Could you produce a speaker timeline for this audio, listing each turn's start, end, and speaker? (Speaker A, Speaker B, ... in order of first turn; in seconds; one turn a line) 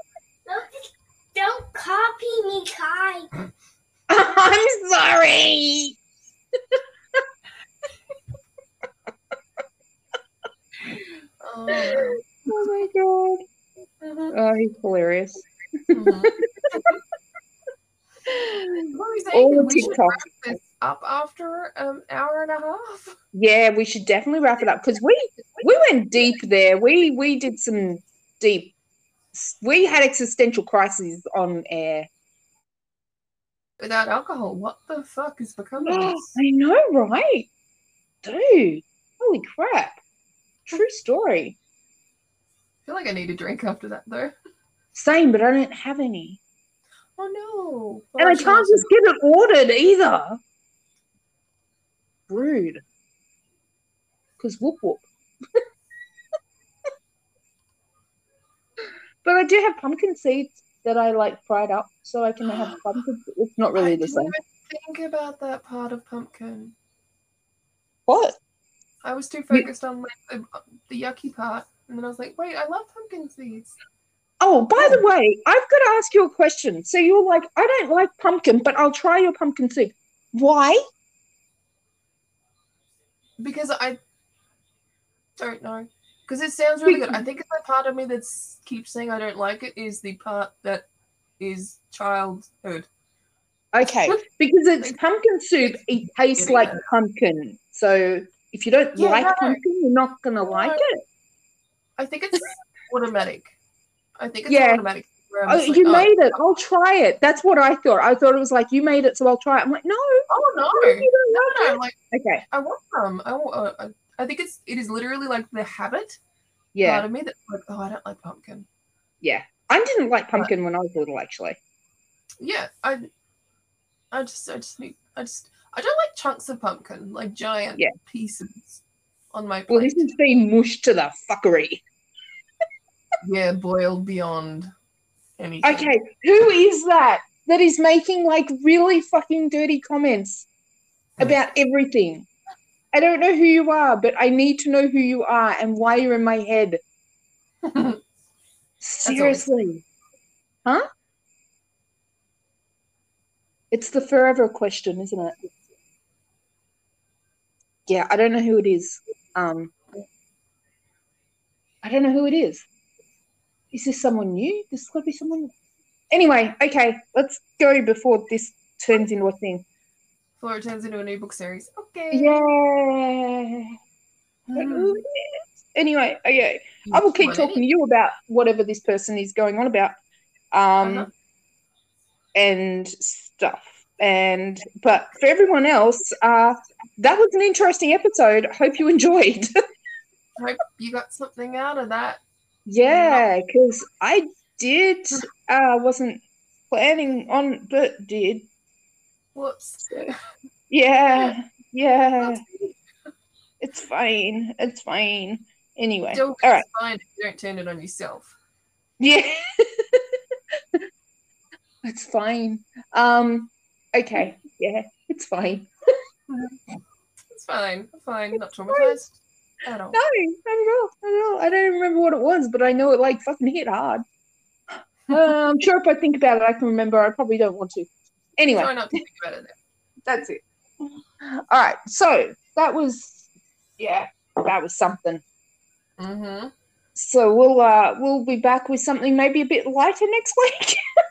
Speaker A: 0.5-3.3
Speaker B: 4.1-6.0
Speaker C: 11.4-12.7
Speaker B: 11.7-13.4
Speaker C: 14.0-14.3
Speaker B: 14.3-16.9
Speaker C: 15.9-17.0
Speaker B: 18.3-20.3
Speaker C: 18.9-23.2
Speaker B: 23.3-28.7
Speaker B: 29.3-32.1
Speaker C: 33.8-36.4
Speaker B: 35.8-37.5
Speaker B: 38.2-40.0
Speaker B: 40.7-41.6
Speaker C: 42.9-44.4
Speaker B: 44.9-46.4
Speaker C: 47.2-48.9
Speaker B: 48.2-50.4
Speaker B: 52.3-52.8
Speaker B: 54.4-55.6
Speaker B: 59.2-64.3
Speaker C: 62.5-62.8
Speaker C: 63.7-66.8
Speaker B: 68.1-68.4
Speaker C: 69.0-73.7
Speaker B: 74.4-80.8
Speaker C: 74.8-75.0
Speaker C: 83.4-84.0
Speaker C: 85.4-90.9
Speaker B: 86.8-87.2
Speaker C: 91.4-92.9
Speaker B: 93.7-101.0
Speaker C: 93.8-94.2
Speaker C: 95.6-96.8
Speaker C: 99.0-99.6
Speaker C: 100.4-100.8
Speaker C: 102.0-103.6
Speaker C: 104.2-106.2
Speaker B: 104.5-104.8
Speaker B: 105.5-112.5
Speaker C: 110.3-112.0
Speaker C: 112.5-116.2
Speaker B: 116.8-117.1
Speaker C: 116.8-118.7
Speaker B: 119.2-121.6
Speaker C: 122.4-123.1
Speaker C: 124.1-128.8
Speaker C: 129.3-130.1
Speaker B: 129.7-131.8
Speaker C: 133.2-134.7
Speaker C: 135.4-135.9
Speaker B: 135.6-140.5
Speaker B: 141.2-142.3
Speaker B: 142.9-146.8
Speaker C: 147.6-148.0
Speaker B: 148.8-149.8
Speaker C: 149.0-149.5
Speaker B: 153.7-155.6
Speaker B: 157.9-159.7
Speaker B: 161.8-162.7
Speaker B: 163.7-165.5
Speaker B: 166.1-169.7
Speaker C: 170.4-172.5
Speaker B: 172.1-173.8
Speaker C: 174.5-175.0
Speaker B: 174.6-179.9
Speaker C: 176.8-177.6
Speaker B: 180.5-181.1
Speaker C: 180.8-181.1
Speaker B: 182.3-189.5
Speaker C: 190.4-192.2
Speaker B: 192.7-198.5
Speaker C: 192.8-193.2
Speaker C: 199.3-200.2
Speaker B: 199.9-200.1
Speaker B: 200.7-202.4
Speaker C: 202.2-202.8
Speaker B: 203.6-206.7
Speaker C: 206.1-208.3
Speaker B: 209.0-210.0
Speaker B: 211.8-215.7
Speaker C: 216.3-216.6
Speaker C: 217.3-220.0
Speaker B: 219.9-224.0
Speaker B: 225.1-228.8
Speaker C: 228.6-229.6
Speaker B: 230.1-230.4
Speaker B: 231.2-233.3
Speaker B: 233.8-235.2
Speaker C: 236.0-236.5
Speaker B: 236.9-240.8